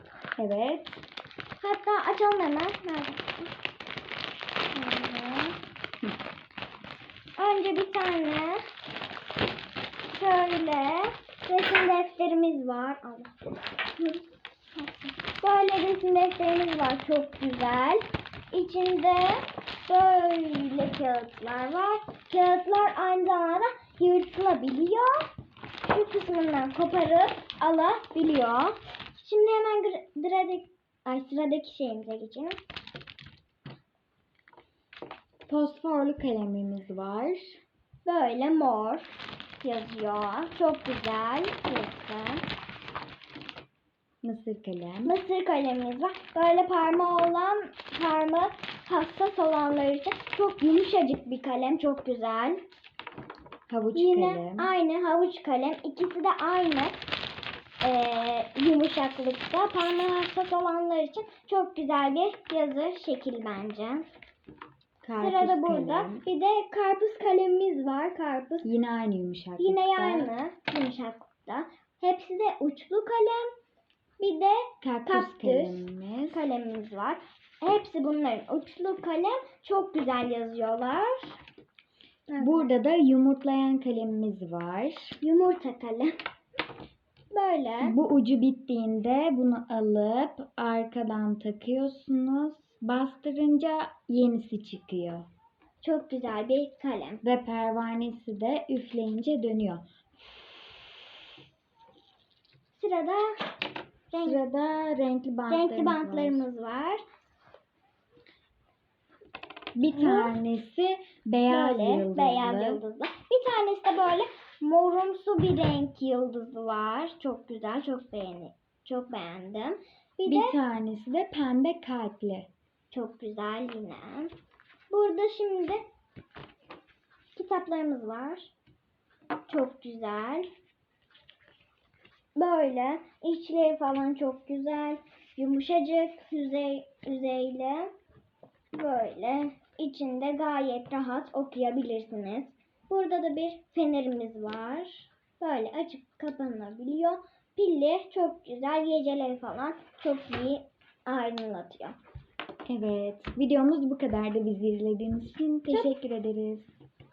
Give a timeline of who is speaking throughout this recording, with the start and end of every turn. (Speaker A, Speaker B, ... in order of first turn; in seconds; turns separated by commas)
Speaker A: 0.4-1.0, Speaker B: 1.6-3.5, Speaker B: 4.7-5.6, Speaker B: 7.4-8.6, Speaker B: 10.1-13.3, Speaker B: 14.8-25.3, Speaker B: 25.9-32.6, Speaker A: 35.5-37.6, Speaker B: 38.0-39.1, Speaker B: 39.6-42.4, Speaker A: 44.2-45.1, Speaker B: 45.0-52.6, Speaker A: 53.7-54.7, Speaker B: 54.0-57.0, Speaker B: 57.8-64.1, Speaker A: 65.0-66.2, Speaker B: 65.2-68.7, Speaker A: 68.6-70.3, Speaker B: 69.6-73.5, Speaker B: 74.2-81.4, Speaker A: 74.8-76.4, Speaker B: 82.3-82.8, Speaker A: 82.4-85.2, Speaker B: 85.2-86.1, Speaker B: 87.3-87.9, Speaker A: 87.8-95.3, Speaker B: 95.8-97.2, Speaker A: 97.2-99.8, Speaker B: 102.7-103.4, Speaker B: 104.1-104.4, Speaker A: 104.2-106.4, Speaker B: 105.5-107.0, Speaker A: 109.8-112.8, Speaker B: 109.9-110.3, Speaker B: 111.5-120.6, Speaker A: 120.3-122.5, Speaker B: 122.9-124.3, Speaker B: 124.9-125.8, Speaker B: 127.3-128.5, Speaker B: 129.5-130.5, Speaker B: 132.4-137.9, Speaker B: 138.7-151.9, Speaker A: 152.7-156.7